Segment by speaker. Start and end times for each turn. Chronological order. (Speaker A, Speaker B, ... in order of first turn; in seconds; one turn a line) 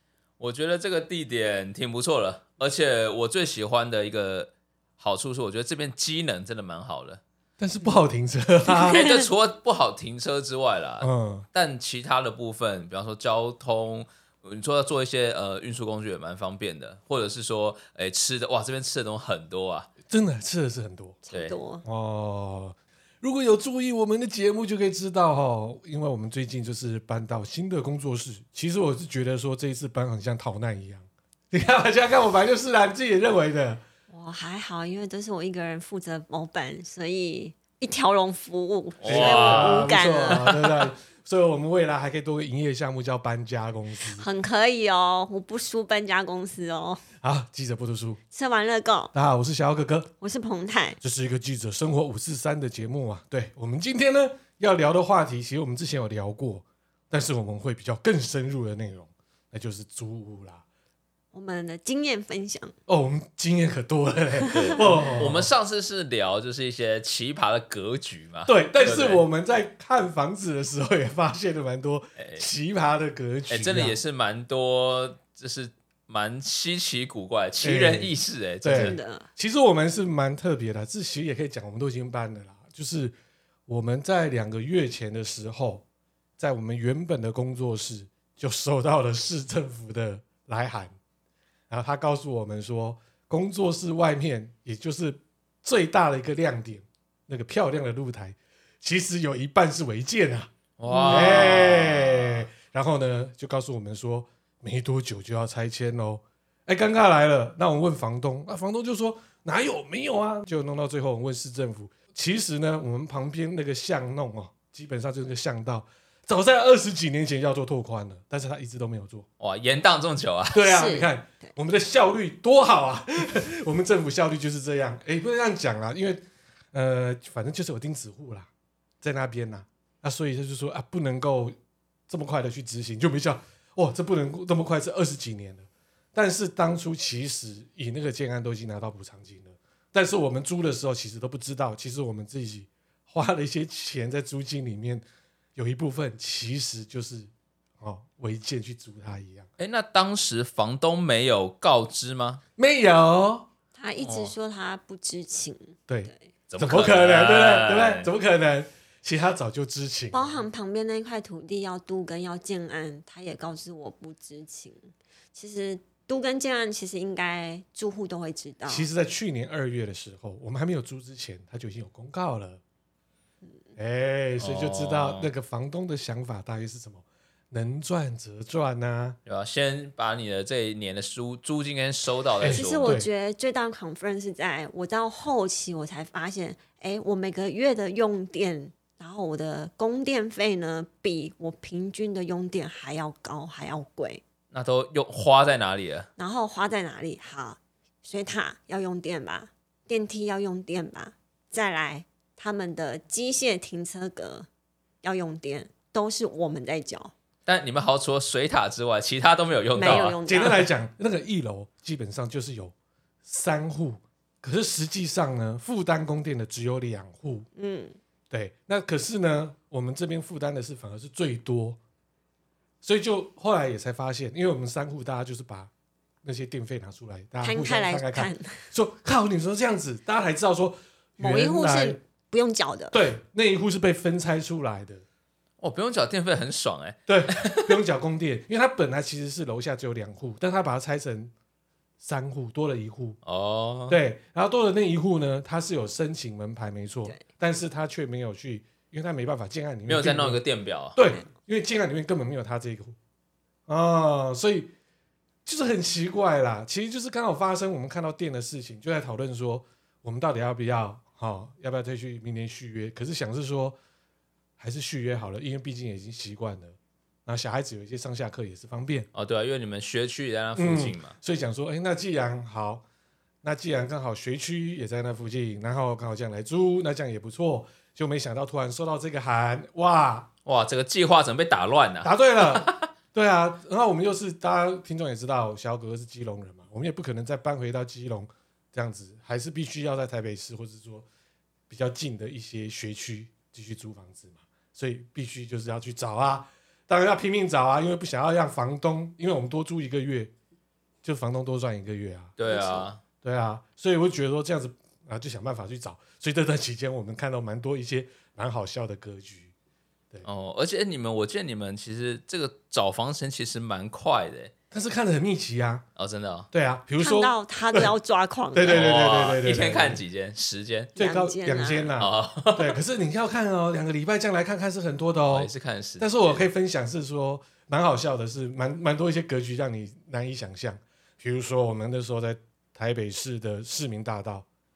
Speaker A: 0.4-7.2
Speaker B: 7.6-9.1
Speaker A: 8.8-19.9
Speaker C: 8.8-9.3
Speaker B: 11.0-11.5
Speaker B: 20.1-21.2
Speaker C: 21.3-21.8
Speaker B: 21.8-33.8
Speaker C: 34.1-40.6
Speaker A: 39.0-40.5
Speaker B: 39.0-44.2
Speaker C: 44.1-47.0
Speaker B: 47.2-48.2
Speaker C: 48.3-49.1
Speaker B: 49.1-50.1
Speaker C: 50.2-51.0
Speaker B: 51.0-60.6
Speaker C: 61.3-62.7
Speaker B: 62.9-65.5
Speaker C: 64.3-64.8
Speaker A: 64.5-69.2
Speaker B: 68.5-74.0
Speaker A: 72.2-72.4
Speaker A: 73.5-79.0
Speaker B: 77.6-83.1
Speaker C: 78.7-79.3
Speaker B: 83.7-85.8
Speaker B: 86.4-90.9
Speaker B: 91.7-119.2
Speaker A: 100.8-102.4
Speaker A: 119.4-120.6
Speaker B: 120.5-128.5
Speaker C: 120.6-121.5
Speaker B: 129.0-131.5
Speaker B: 132.1-145.0
Speaker B: 145.6-149.5
Speaker A: 149.6-152.4
Speaker B: 152.6-153.5
Speaker C: 153.7-156.2
Speaker A: 154.0-154.3
Speaker B: 155.9-160.4
Speaker A: 156.5-158.1
Speaker C: 160.1-168.9
Speaker B: 168.7-172.6
Speaker B: 173.8-179.2
Speaker A: 174.4-175.3
Speaker A: 179.2-183.0
Speaker B: 182.4-183.1
Speaker C: 182.4-194.2
Speaker A: 194.5-196.1
Speaker C: 196.2-204.5
Speaker C: 205.0-207.1
Speaker A: 207.4-210.6
Speaker C: 209.7-210.6
Speaker B: 209.8-217.5
Speaker C: 217.6-218.0
Speaker B: 218.3-221.8
Speaker B: 222.8-225.7
Speaker B: 226.2-232.0
Speaker C: 227.4-228.7
Speaker C: 231.2-233.0
Speaker B: 232.9-235.0
Speaker A: 235.6-237.8
Speaker B: 237.1-241.3
Speaker B: 242.0-243.2
Speaker A: 243.2-244.0
Speaker B: 243.9-250.4
Speaker A: 249.9-251.0
Speaker B: 250.9-252.9
Speaker B: 253.7-254.7
Speaker B: 255.4-263.8
Speaker B: 264.6-269.1
Speaker A: 269.1-271.1
Speaker B: 270.6-272.8
Speaker B: 273.4-280.3
Speaker A: 280.4-282.9
Speaker B: 282.0-291.1
Speaker B: 291.7-300.3
Speaker B: 301.0-302.3
Speaker A: 302.4-303.0
Speaker C: 302.5-302.9
Speaker B: 303.2-309.5
Speaker A: 310.2-314.5
Speaker B: 314.7-315.9
Speaker A: 315.9-316.5
Speaker B: 316.5-317.9
Speaker C: 317.0-318.9
Speaker B: 318.5-320.0
Speaker A: 318.7-320.9
Speaker C: 320.9-321.9
Speaker B: 320.9-334.4
Speaker A: 322.0-322.8
Speaker A: 325.3-326.4